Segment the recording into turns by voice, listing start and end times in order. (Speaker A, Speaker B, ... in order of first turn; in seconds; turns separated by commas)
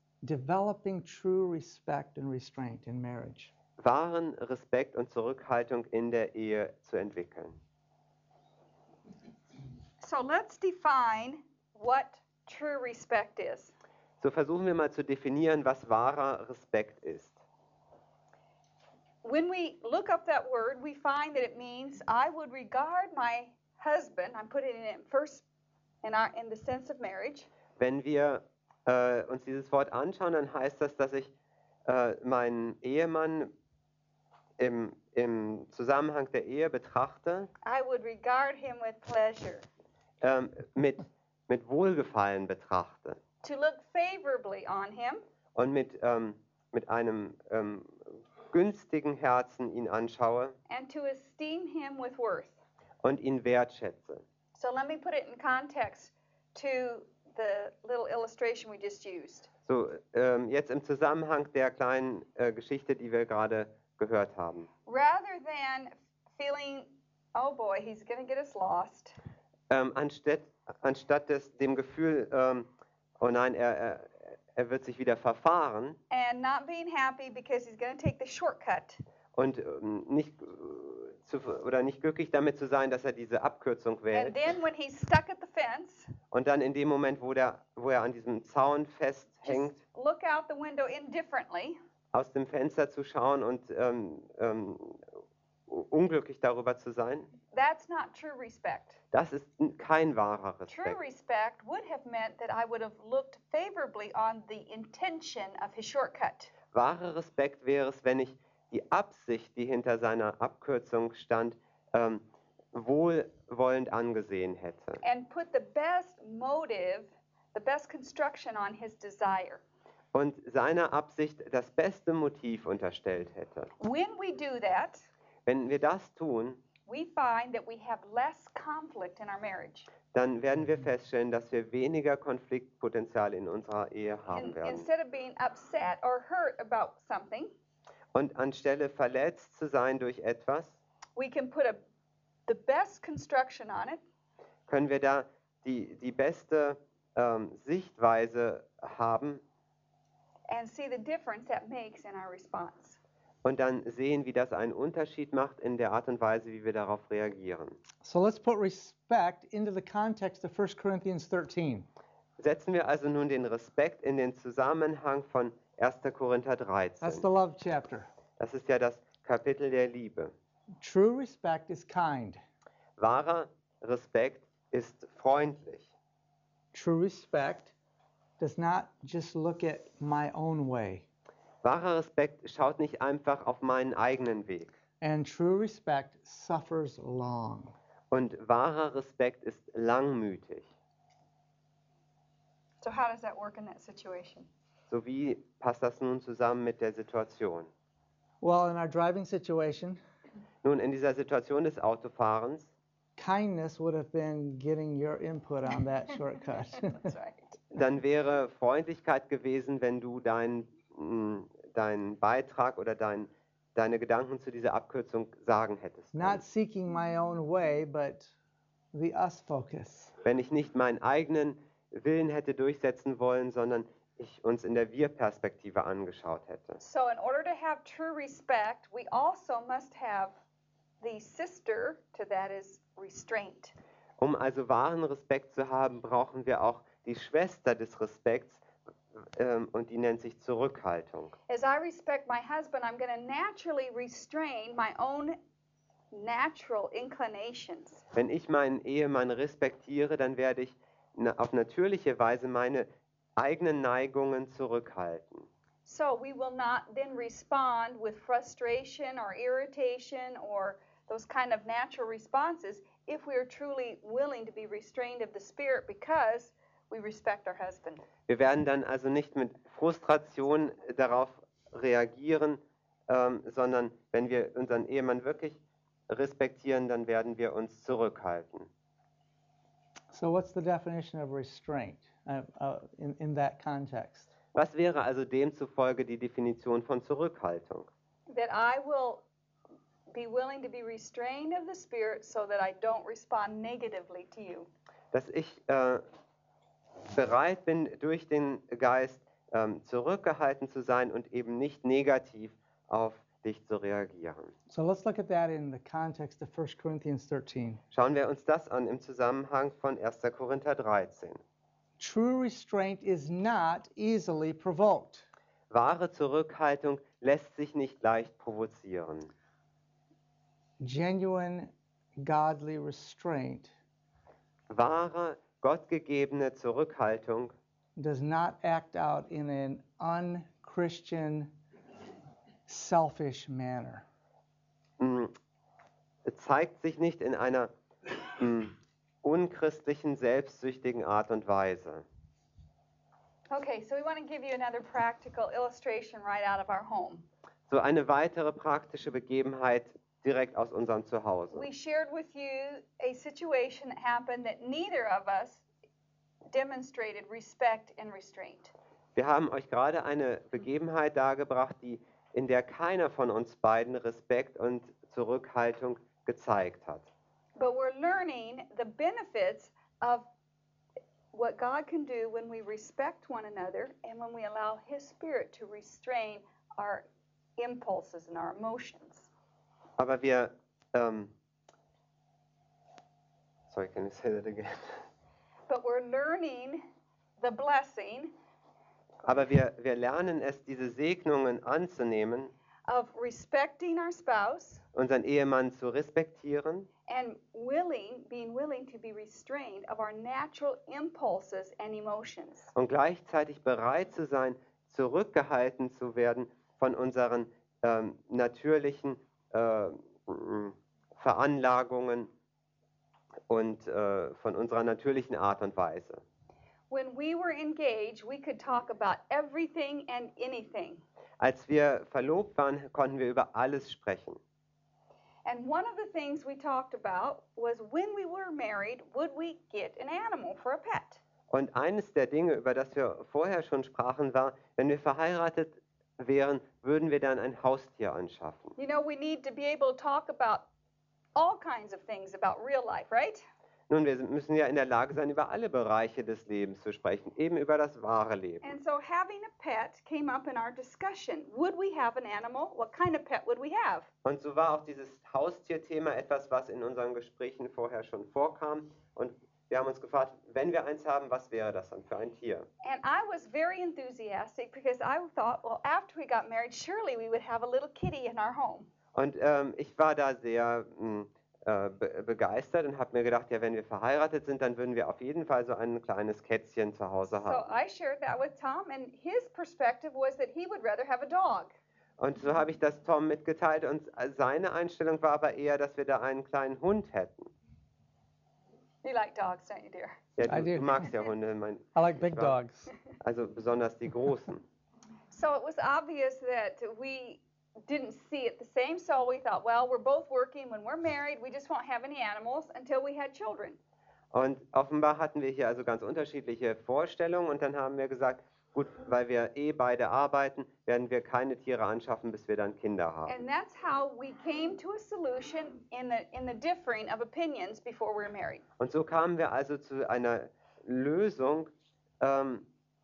Speaker A: 0.2-3.5, Speaker B: 3.8-7.6, Speaker C: 10.0-13.7, Speaker B: 14.2-17.4, Speaker C: 19.2-25.4, Speaker C: 26.0-27.5, Speaker B: 27.8-31.3, Speaker B: 31.9-33.5, Speaker B: 34.6-37.5, Speaker C: 37.6-39.6, Speaker B: 40.2-43.2, Speaker C: 43.4-45.2, Speaker B: 45.5-50.5, Speaker C: 50.7-52.5, Speaker B: 53.0-54.2, Speaker C: 54.5-59.5, Speaker B: 59.6-64.7, Speaker C: 64.8-69.2, Speaker B: 69.7-76.0, Speaker C: 76.1-79.0, Speaker B: 79.3-84.3, Speaker C: 84.1-86.1, Speaker B: 86.3-89.8, Speaker C: 89.4-91.8, Speaker B: 92.1-95.1, Speaker B: 95.7-97.3, Speaker C: 97.5-99.0, Speaker B: 99.1-101.0, Speaker C: 100.7-106.5, Speaker B: 106.7-115.0, Speaker C: 115.0-119.6, Speaker B: 120.1-123.7, Speaker C: 123.8-125.0, Speaker B: 125.5-126.6, Speaker C: 126.9-129.9, Speaker B: 130.1-134.8, Speaker C: 134.3-137.5, Speaker B: 138.1-140.8, Speaker C: 141.2-141.8, Speaker C: 142.5-144.0, Speaker B: 144.7-149.4, Speaker C: 150.5-153.0, Speaker B: 153.4-157.8, Speaker A: 158.0-161.8, Speaker B: 162.4-167.2, Speaker A: 167.0-168.1, Speaker B: 168.4-170.3, Speaker A: 170.8-172.4, Speaker B: 173.0-175.9, Speaker A: 176.7-177.7, Speaker A: 178.4-181.0, Speaker B: 181.6-184.7, Speaker A: 185.0-187.7, Speaker B: 188.1-190.7, Speaker C: 192.8-194.5, Speaker B: 194.9-197.7, Speaker A: 198.4-200.0, Speaker B: 200.6-202.7, Speaker A: 203.2-207.1, Speaker C: 206.8-207.6, Speaker B: 207.7-216.4, Speaker A: 216.1-218.3, Speaker A: 218.9-220.1, Speaker B: 220.2-226.8, Speaker C: 226.8-230.3, Speaker C: 231.0-233.7, Speaker B: 234.2-238.6, Speaker B: 239.2-241.3, Speaker C: 241.5-245.4, Speaker C: 246.1-248.0, Speaker B: 248.1-255.5, Speaker C: 255.8-268.1, Speaker B: 268.3-275.6, Speaker B: 276.1-278.7, Speaker A: 280.1-284.3, Speaker B: 284.5-287.9, Speaker C: 288.3-289.2, Speaker C: 290.1-294.7, Speaker B: 295.1-296.0, Speaker B: 297.1-304.5, Speaker A: 304.7-307.8, Speaker B: 307.9-311.4, Speaker A: 312.0-315.3, Speaker B: 315.7-319.3, Speaker A: 320.8-323.7, Speaker B: 324.7-327.5, Speaker A: 328.0-331.5, Speaker A: 332.7-334.0, Speaker B: 335.0-335.3, Speaker B: 336.2-337.7, Speaker B: 338.2-342.0, Speaker C: 343.5-347.2, Speaker B: 347.7-351.7, Speaker C: 351.5-355.6, Speaker C: 356.5-358.7, Speaker B: 359.1-367.1, Speaker C: 367.6-370.3, Speaker C: 371.3-377.0, Speaker C: 377.6-379.3, Speaker B: 380.0-381.3, Speaker B: 383.7-385.0, Speaker C: 385.7-386.8, Speaker C: 387.4-388.3, Speaker B: 389.2-392.5, Speaker C: 392.9-394.8, Speaker B: 394.9-396.9, Speaker C: 397.1-402.7, Speaker B: 402.7-412.3, Speaker B: 413.5-416.2, Speaker C: 416.9-421.0, Speaker B: 421.4-424.4, Speaker C: 425.4-431.2, Speaker B: 431.5-438.8, Speaker C: 438.8-440.7, Speaker C: 441.4-443.4, Speaker B: 443.9-448.7, Speaker C: 448.6-454.1, Speaker B: 454.2-462.6, Speaker C: 462.8-468.9, Speaker B: 469.1-477.7, Speaker C: 477.4-481.7, Speaker B: 482.2-487.5, Speaker C: 489.0-490.2, Speaker B: 490.4-492.5, Speaker A: 490.5-491.1, Speaker A: 491.9-492.9, Speaker B: 493.2-494.6, Speaker C: 495.3-503.8, Speaker B: 504.3-513.4, Speaker C: 513.3-518.6, Speaker B: 518.8-521.7, Speaker B: 522.2-522.6